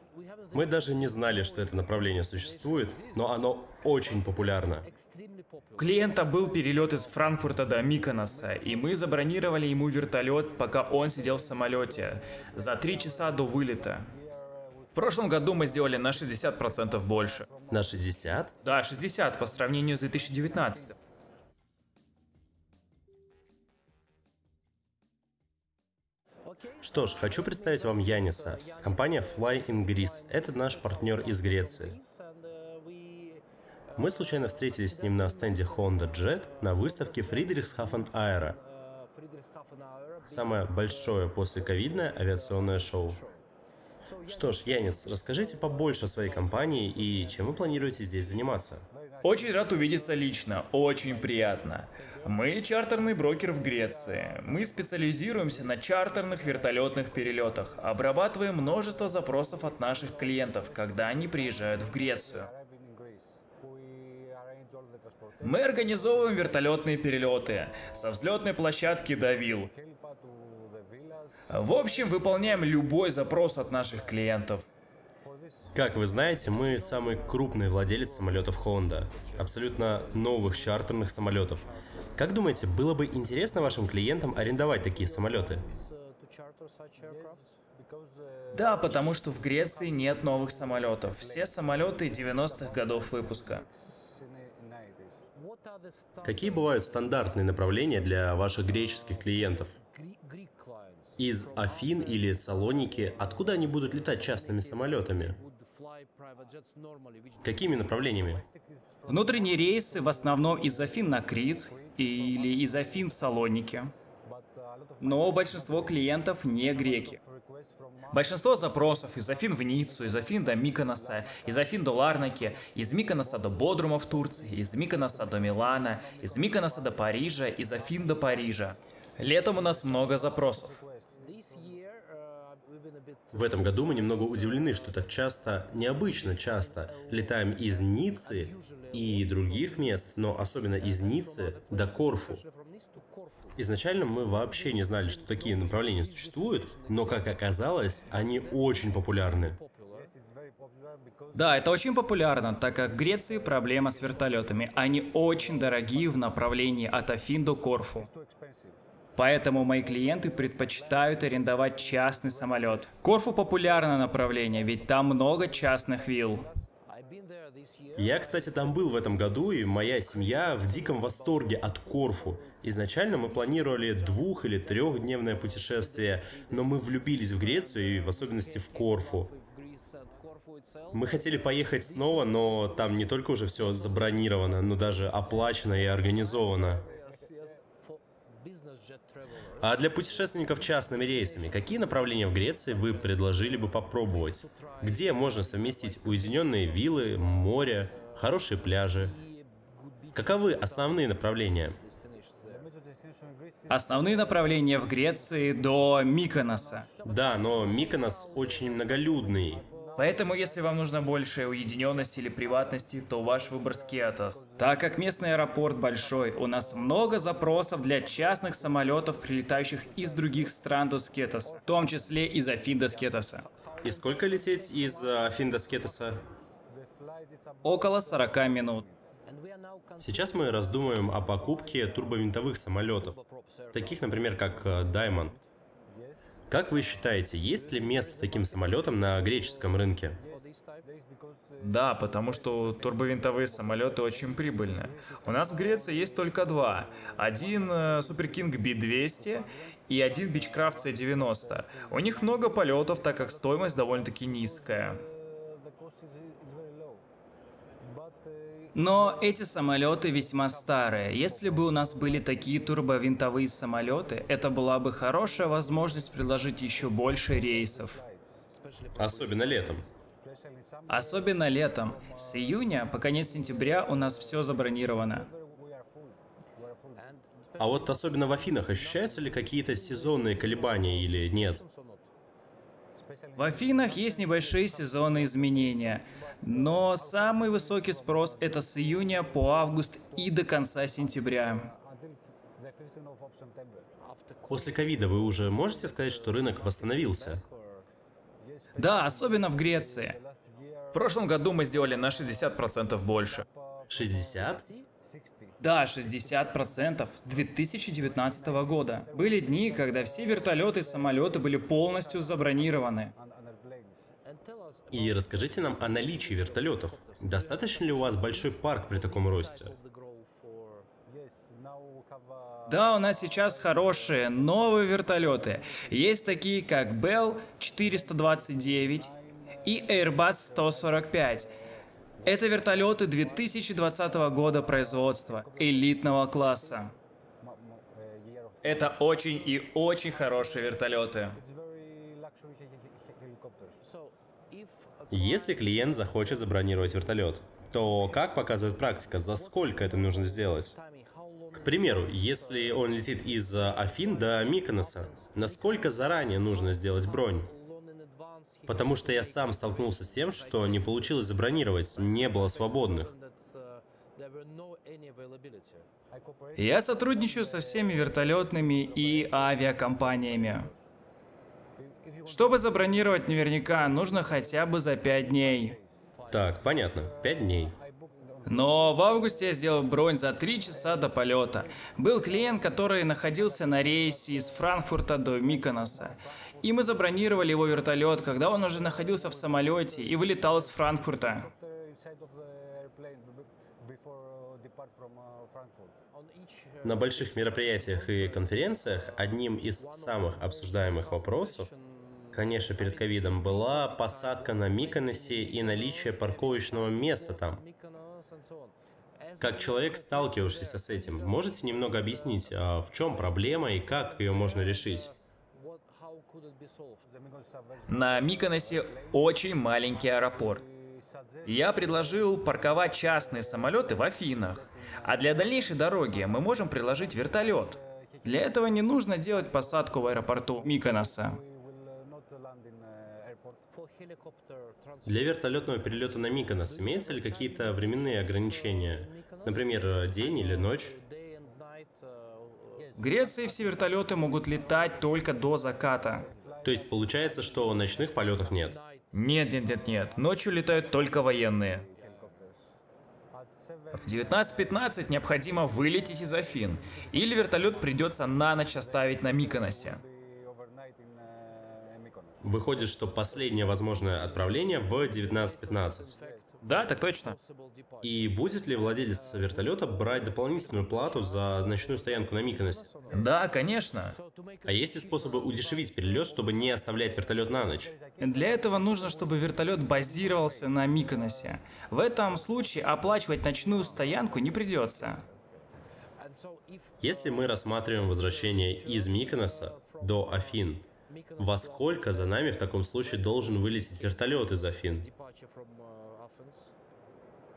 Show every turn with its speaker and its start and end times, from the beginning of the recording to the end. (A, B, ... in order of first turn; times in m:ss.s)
0:00.5-0:04.9 A
0:05.8-0:14.1 B
0:15.0-0:17.5 B
0:17.7-0:18.5 A
0:18.6-0:20.9 B
0:26.8-0:32.0 A
0:34.0-0:38.6 A
0:40.2-0:43.2 A
0:44.3-0:48.8 A
0:49.2-1:02.5 B
1:05.4-1:09.7 B
1:11.5-1:14.7 B
1:15.8-1:25.7 A
1:28.5-1:33.7 B
1:36.2-1:39.7 A
1:41.2-1:45.4 A
1:47.4-1:48.4 A
1:49.1-1:53.9 B
1:55.0-1:57.2 B
1:58.1-2:10.8 B
2:13.3-2:22.4 A
2:23.6-2:29.6 A
2:31.3-2:38.1 B
2:39.2-2:46.5 B
2:48.0-2:59.3 A
3:00.9-3:06.9 A
3:09.6-3:19.2 A
3:20.2-3:21.8 A
3:23.7-3:26.9 B
3:27.0-3:29.7 A
3:30.0-3:43.4 B
3:43.8-3:46.2 A
3:47.6-3:48.9 B
3:50.0-3:53.2 A
3:53.7-3:55.4 A
3:56.5-4:00.2 A
4:01.6-4:15.0 B
4:18.7-4:28.0 B
4:28.9-4:29.8 A
4:30.9-4:35.3 B
4:37.6-4:41.6 A
4:43.4-4:51.7 B
4:54.5-4:57.4 A
4:58.8-5:00.2 B
5:00.9-5:03.4 B
5:03.9-5:04.6 A
5:05.6-5:13.1 B
5:14.9-5:19.8 A
5:22.7-5:29.1 B
5:29.6-5:31.5 B
5:32.2-5:36.9 B
5:38.6-5:41.4 B
5:45.1-5:50.8 A
5:51.5-5:57.5 A
5:58.7-6:03.1 A
6:06.6-6:10.7 B
6:12.2-6:15.8 B
6:16.3-6:17.8 A
6:18.4-6:31.5 B
6:36.8-6:41.7 A
6:42.3-6:47.6 A
6:49.4-6:55.1 A
6:57.9-7:00.6 B
7:01.4-7:11.4 B
7:15.0-7:21.0 A
7:22.9-7:26.2 B
7:26.6-7:28.8 A
7:29.1-7:31.9 B
7:33.9-7:40.0 B
7:42.4-7:46.2 A
7:46.6-7:47.4 B
7:48.0-7:52.9 A
7:53.1-7:54.1 B
7:54.6-7:57.9 A
7:58.2-8:05.2 B
8:07.0-8:10.8 A
8:11.4-8:15.1 A